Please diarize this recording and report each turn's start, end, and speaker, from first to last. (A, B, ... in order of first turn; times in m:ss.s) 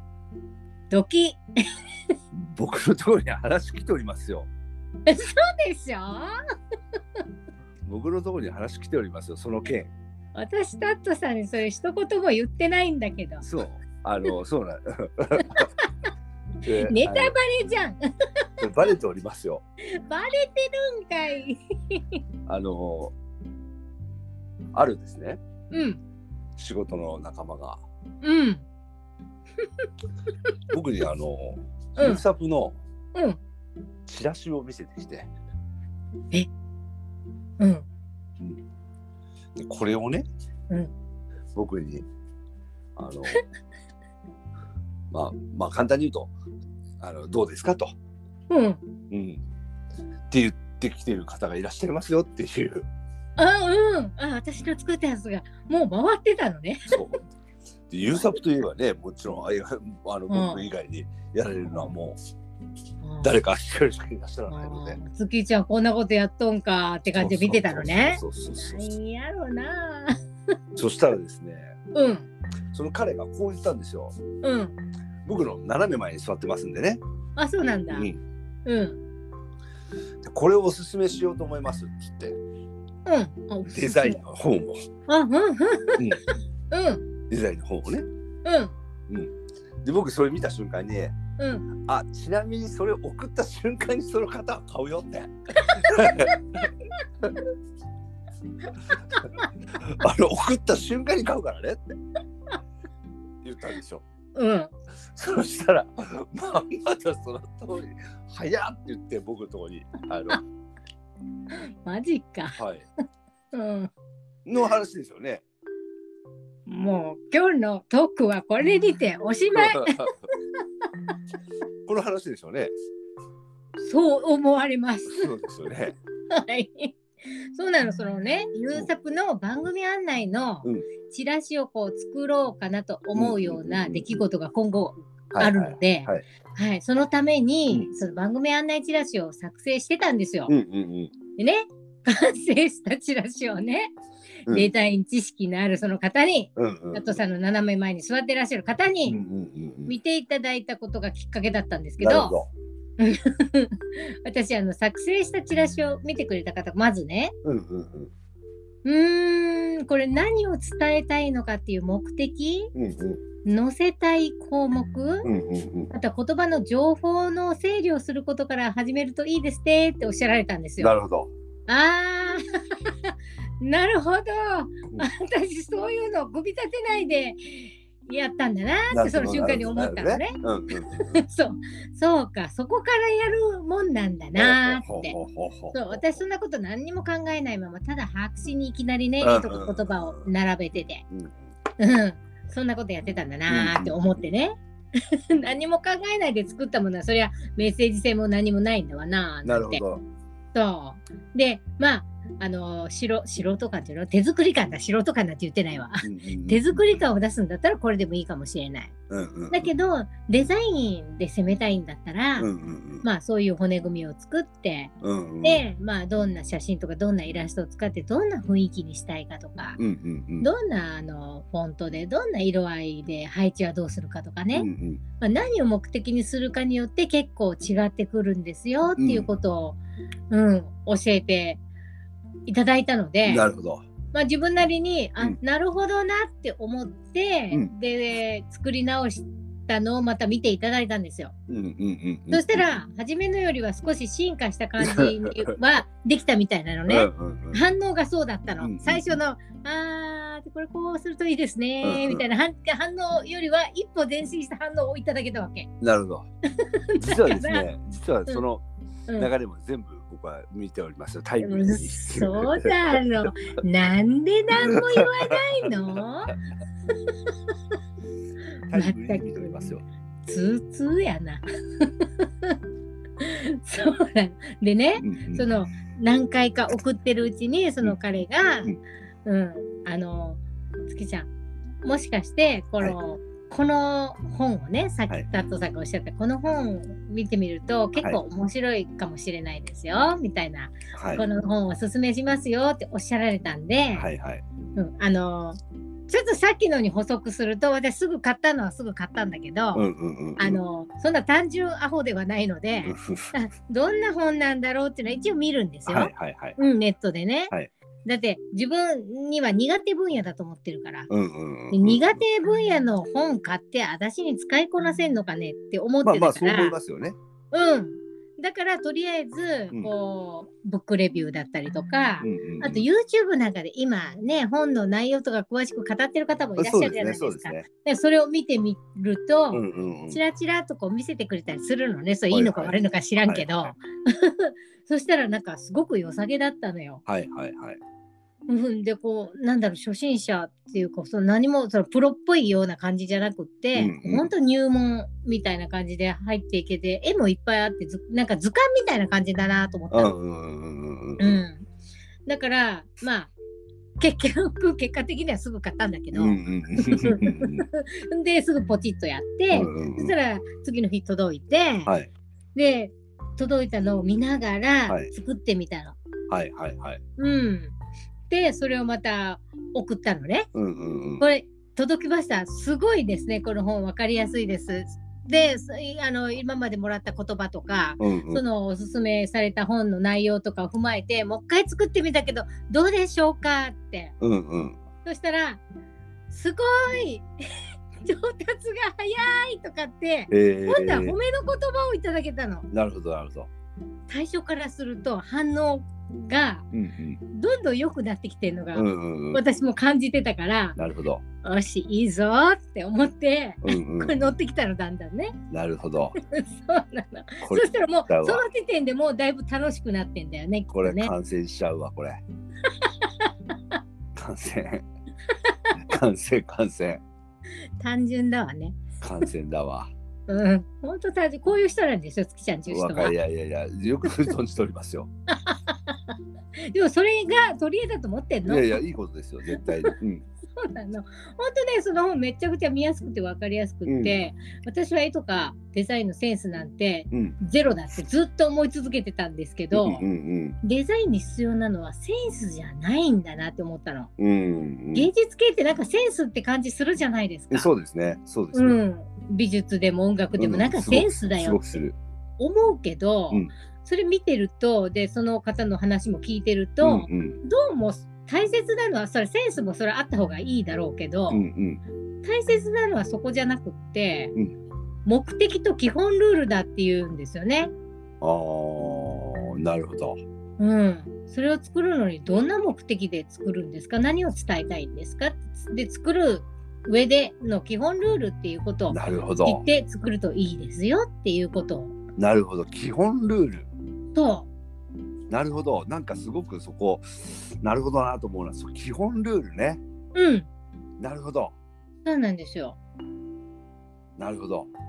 0:00.9-0:01.4 A
0:02.3-0:04.5 B
0:05.1-0:06.3 A
0:07.8-0:09.9 B
0:10.3-0:13.4 A
0:13.4-0:15.7 B
0:15.4-0:15.9 A
0:16.6-0:17.3 B
0:16.8-0:18.7 A
0:18.6-0:19.6 B
0:19.8-0:22.2 A
0:22.5-0:23.1 B
0:24.7-0:25.4 B
0:25.7-0:26.0 A
0:26.6-0:27.8 B
0:28.2-0:28.6 A
0:30.7-0:32.8 B
0:32.0-0:32.2 A
0:34.0-0:35.3 B
0:37.6-0:37.8 A
0:39.6-0:40.2 B
0:41.5-0:42.0 B
0:43.0-0:43.4 B
0:45.1-0:46.3 B
0:47.0-0:47.9 B
0:48.5-0:48.8 A
0:49.1-0:49.4 B
0:50.3-0:52.8 B
0:53.4-0:57.0 A
0:56.9-0:57.2 B
0:57.9-1:02.2 B
1:00.3-1:00.6 A
1:03.0-1:03.4 A
1:03.2-1:05.0 B
1:04.5-1:10.2 A
1:07.1-1:08.9 B
1:10.8-1:11.7 B
1:11.9-1:12.3 A
1:12.7-1:14.2 B
1:14.4-1:14.7 A
1:15.2-1:17.0 B
1:17.4-1:18.1 A
1:17.9-1:18.2 B
1:18.6-1:19.0 A
1:20.2-1:22.4 B
1:23.0-1:24.2 A
1:23.7-1:24.8 B
1:25.1-1:27.0 A
1:27.3-1:28.0 B
1:28.4-1:28.7 A
1:29.1-1:31.2 B
1:31.4-1:31.7 A
1:31.7-1:36.7 B
1:35.6-1:36.4 A
1:39.8-1:41.8 B
1:43.4-1:44.0 B
1:44.4-1:44.7 A
1:45.0-1:50.4 B
1:51.5-1:52.6 A
1:52.6-1:52.8 B
1:53.5-1:53.9 A
1:54.4-1:55.4 B
1:56.7-2:00.1 A
1:59.5-2:00.1 B
2:01.9-2:02.7 B
2:03.8-2:05.3 A
2:05.0-2:06.0 B
2:06.3-2:07.0 A
2:07.5-2:20.5 A
2:13.1-2:14.2 B
2:15.3-2:16.2 B
2:20.5-2:21.1 B
2:21.4-2:23.9 A
2:24.4-2:29.2 A
2:26.6-2:27.2 B
2:29.1-2:29.9 B
2:29.8-2:32.4 A
2:32.0-2:32.5 B
2:33.0-2:37.3 A
2:37.4-2:38.1 B
2:38.8-2:42.7 A
2:42.7-2:43.2 B
2:43.4-2:45.3 A
2:45.2-2:45.9 B
2:45.9-2:50.9 A
2:50.8-2:51.3 B
2:51.7-3:05.2 A
2:58.9-3:01.2 B
3:04.4-3:06.2 B
3:05.7-3:11.0 A
3:09.2-3:10.3 B
3:11.1-3:11.4 B
3:11.8-3:19.8 A
3:13.5-3:14.0 B
3:19.4-3:20.0 B
3:20.5-3:28.9 A
3:26.0-3:27.0 B
3:29.1-3:29.7 B
3:29.5-3:32.5 A
3:32.4-3:33.0 B
3:33.0-3:34.9 A
3:35.0-3:35.6 B
3:35.4-3:39.8 A
3:39.8-3:40.5 B
3:40.4-3:44.7 A
3:44.5-3:45.0 B
3:45.2-3:49.8 A
3:49.0-3:49.3 B
3:50.3-3:51.6 A
3:52.5-3:53.5 A
3:53.2-3:53.8 B
3:54.1-4:01.3 A
4:01.5-4:02.6 B
4:02.3-4:15.7 A
4:04.8-4:05.6 B
4:06.9-4:07.6 B
4:08.6-4:09.1 B
4:11.8-4:12.2 B
4:15.8-4:16.3 B
4:16.6-4:17.6 A
4:17.0-4:18.6 B
4:19.2-4:23.2 B
4:21.4-4:26.4 A
4:24.6-4:26.0 B
4:28.7-4:29.8 B
4:28.7-4:29.7 A
4:30.2-4:32.6 A
4:33.2-4:41.3 A
4:35.0-4:35.5 B
4:41.8-4:54.1 A
4:50.9-4:51.2 B
4:53.9-4:54.4 B
4:54.8-4:55.6 A
4:56.1-5:07.5 A
4:59.7-5:00.6 B
5:02.8-5:03.3 B
5:05.9-5:06.6 B
5:08.0-5:11.1 A
5:11.1-5:12.2 B
5:11.7-5:16.8 A
5:16.0-5:17.2 B
5:17.5-5:37.0 A
5:22.2-5:22.8 B
5:26.6-5:27.7 B
5:29.5-5:30.2 B
5:32.3-5:33.7 B
5:37.0-5:37.8 B
5:38.5-5:50.1 A
5:43.7-5:44.3 B
5:49.9-5:51.4 B
5:51.2-5:51.6 A
5:52.3-5:53.3 A
5:54.0-6:01.9 A
5:56.1-5:57.6 B
5:59.5-6:00.1 B
6:02.5-6:06.0 A
6:06.3-6:07.0 B
6:07.2-6:07.7 A
6:08.3-6:10.5 A
6:10.5-6:11.2 B
6:11.2-6:24.1 A
6:18.0-6:18.4 B
6:24.2-6:24.8 B
6:25.0-6:25.6 A
6:26.3-6:27.2 A
6:28.0-6:32.7 A
6:30.3-6:31.2 B
6:32.7-6:33.5 B
6:34.1-6:36.6 A
6:36.7-6:37.2 B
6:37.3-6:40.8 A
6:38.7-6:39.4 B
6:40.8-6:41.2 B
6:41.4-6:45.4 A
6:43.6-6:44.2 B
6:45.5-6:46.2 B
6:46.2-6:51.1 A
6:47.4-6:48.4 B
6:50.7-6:52.2 B
6:53.1-6:53.7 A
6:54.1-6:54.8 B
6:55.5-6:55.7 A
6:55.8-6:57.0 B
6:57.8-6:58.8 A
6:59.0-6:59.9 B
7:00.3-7:03.1 A
7:02.7-7:05.1 B
7:05.3-7:08.8 A
7:08.5-7:10.2 B
7:09.5-7:09.9 A
7:10.6-7:20.0 A
7:13.8-7:14.2 B
7:17.1-7:17.4 B
7:19.7-7:20.6 B
7:20.6-7:24.1 A
7:24.2-7:25.1 B
7:24.9-7:27.7 A
7:27.5-7:28.8 B
7:28.5-7:31.8 A
7:30.4-7:32.0 B
7:32.4-7:41.4 A
7:36.8-7:37.4 B
7:41.3-7:41.8 B
7:42.2-7:44.3 A
7:45.0-7:47.7 A
7:48.2-7:50.2 B
7:50.6-8:02.0 A
7:58.9-7:59.6 B
8:02.2-8:03.7 B
8:04.1-8:04.5 A
8:05.3-8:09.8 B
8:10.1-8:10.5 A
8:11.0-8:11.5 B
8:12.0-8:12.8 A
8:14.2-8:14.7 B